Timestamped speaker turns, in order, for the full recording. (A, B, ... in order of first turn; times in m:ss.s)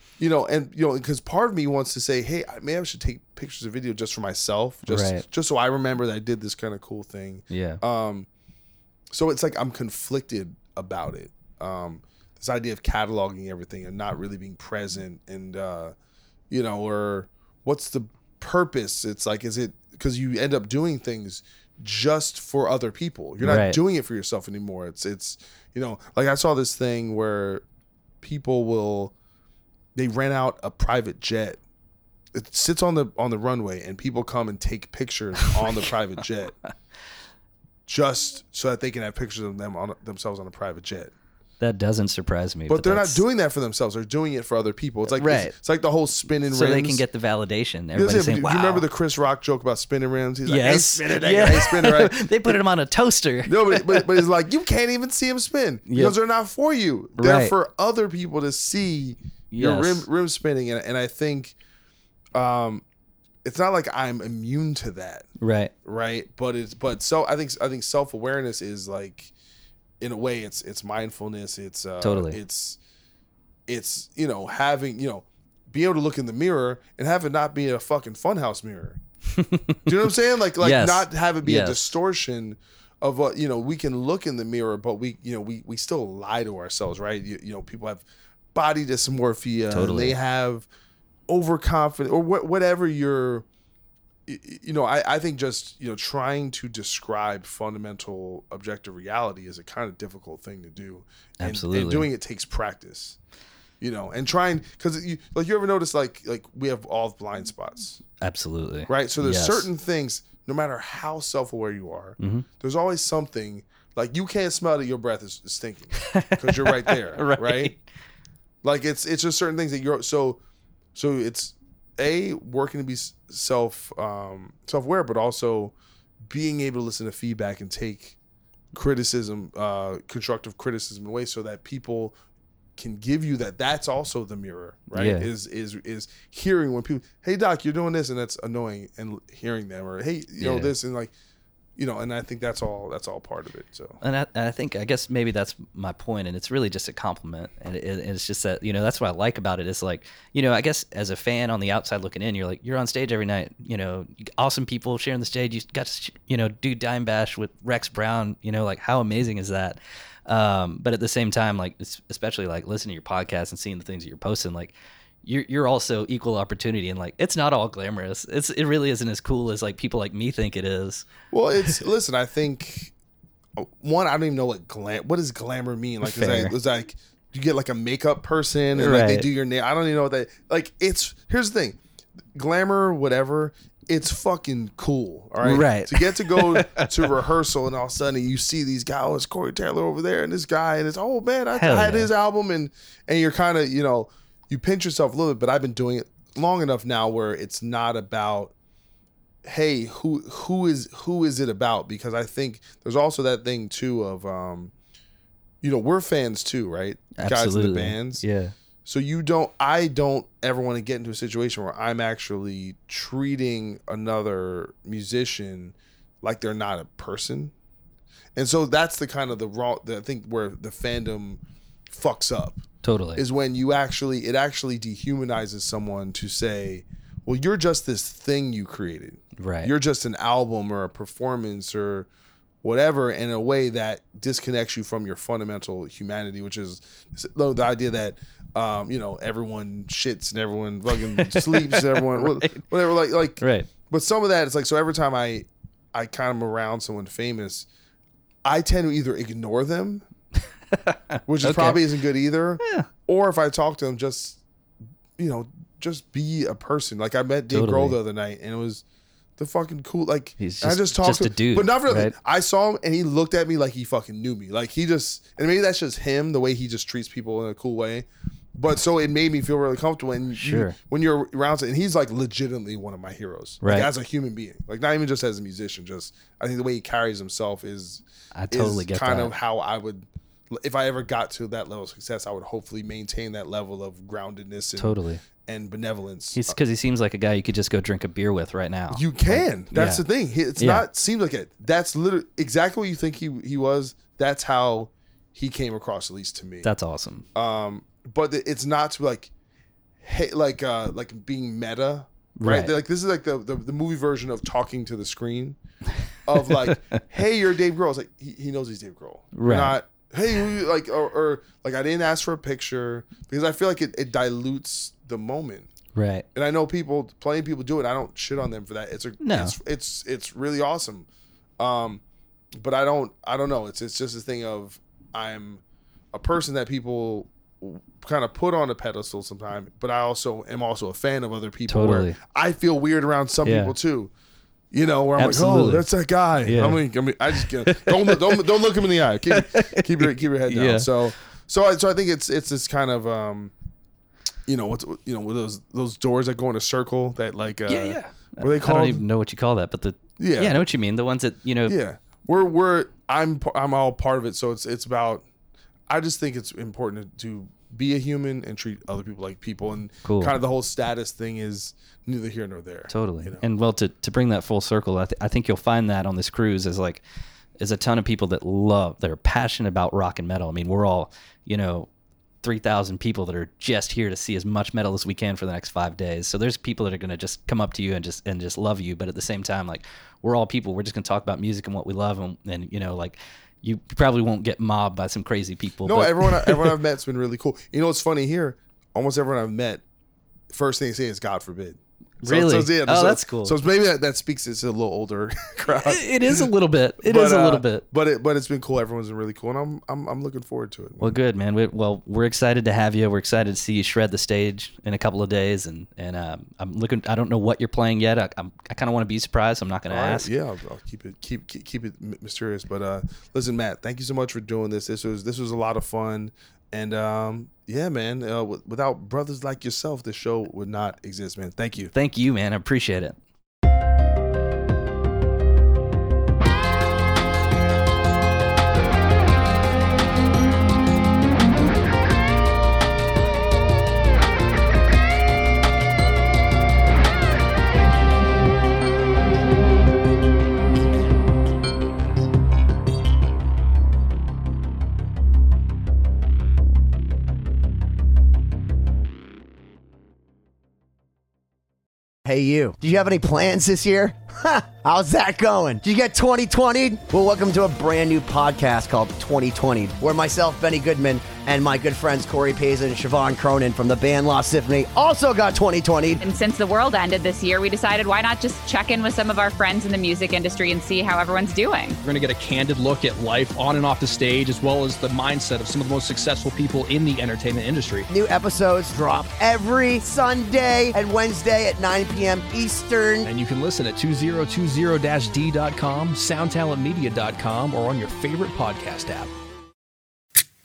0:00.2-0:08.3 A
0:04.9-0:05.3 B
0:07.5-0:07.8 B
0:09.1-0:16.0 A
0:16.5-0:27.6 A
0:23.4-0:23.8 B
0:28.2-0:29.1 A
0:30.0-0:31.6 A
0:32.3-0:36.6 A
0:35.4-0:35.7 B
0:37.9-0:41.1 A
0:41.6-0:43.2 B
0:42.7-0:47.0 A
0:45.1-0:45.6 B
0:46.5-0:48.9 B
0:48.0-0:52.6 A
0:50.5-0:54.2 B
0:53.5-1:01.6 A
0:55.9-0:56.2 B
0:57.2-0:57.6 B
0:59.5-1:00.1 B
1:02.3-1:02.8 A
1:03.4-1:05.3 A
1:05.4-1:05.7 B
1:05.8-1:09.3 A
1:10.0-1:12.8 A
1:12.0-1:12.4 B
1:13.7-1:19.0 A
1:19.3-1:20.0 B
1:19.9-1:30.7 A
1:20.6-1:21.9 B
1:29.7-1:30.2 B
1:31.3-1:33.4 A
1:34.3-1:43.2 A
1:41.4-1:42.1 B
1:43.8-1:48.0 A
1:48.2-1:49.7 B
1:48.9-1:57.8 A
1:52.2-1:52.5 B
1:56.0-1:57.8 B
1:58.6-2:00.4 A
2:01.0-2:08.2 A
2:08.7-2:12.2 A
2:12.8-2:21.1 A
2:14.9-2:15.3 B
2:20.4-2:20.7 B
2:21.8-2:24.0 A
2:24.0-2:51.8 B
2:51.3-2:52.9 A
2:53.6-3:01.8 A
2:56.0-2:56.6 B
2:58.8-2:59.3 B
3:02.4-3:18.5 A
3:05.4-3:06.9 B
3:11.6-3:12.1 B
3:19.4-3:24.7 A
3:25.6-3:28.2 A
3:27.2-3:28.5 B
3:28.8-3:37.5 A
3:38.4-3:42.6 A
3:42.8-3:43.2 B
3:43.2-3:52.1 A
3:49.4-3:49.7 B
3:52.6-4:07.7 A
4:00.9-4:02.7 B
4:03.4-4:03.7 B
4:08.4-4:10.0 A
4:10.7-4:11.9 B
4:11.3-4:14.4 A
4:12.6-4:12.9 B
4:15.2-4:18.8 A
4:17.5-4:18.0 B
4:19.4-4:46.6 A
4:20.4-4:22.2 B
4:30.4-4:30.8 B
4:33.6-4:33.9 B
4:38.4-4:39.3 B
4:44.8-4:45.2 B
4:46.4-4:50.0 B
4:48.9-4:56.7 A
4:50.6-4:50.9 B
4:56.6-4:57.3 B
4:57.3-4:59.3 A
5:00.0-5:05.6 A
5:02.4-5:02.7 B
5:06.2-5:15.7 A
5:06.4-5:07.0 B
5:09.3-5:09.8 B
5:15.9-5:16.3 B
5:16.4-5:21.1 A
5:19.2-5:19.6 B
5:21.6-5:22.0 A
5:22.6-5:25.6 A
5:26.1-5:34.1 A
5:31.7-5:32.2 B
5:33.4-5:33.8 B
5:34.7-5:43.5 A
5:35.2-5:35.9 B
5:36.4-5:38.6 B
5:39.3-5:41.1 B
5:44.5-5:49.0 A
5:47.7-5:51.8 B
5:50.2-5:50.7 A
5:51.6-5:55.2 A
5:55.9-6:03.4 A
6:00.0-6:00.4 B
6:02.9-6:07.0 B
6:07.6-6:11.9 B
6:12.4-6:26.8 B
6:25.8-6:29.8 A
6:30.5-6:36.5 A
6:32.2-6:33.6 B
6:35.8-6:37.8 B
6:37.0-6:41.1 A
6:41.0-6:50.3 B
6:49.9-7:01.9 A
7:01.9-7:03.2 B
7:32.2-7:46.2 C
7:46.2-7:52.0 D
7:52.0-7:58.1 E
7:58.1-8:03.3 C
8:03.2-8:09.3 E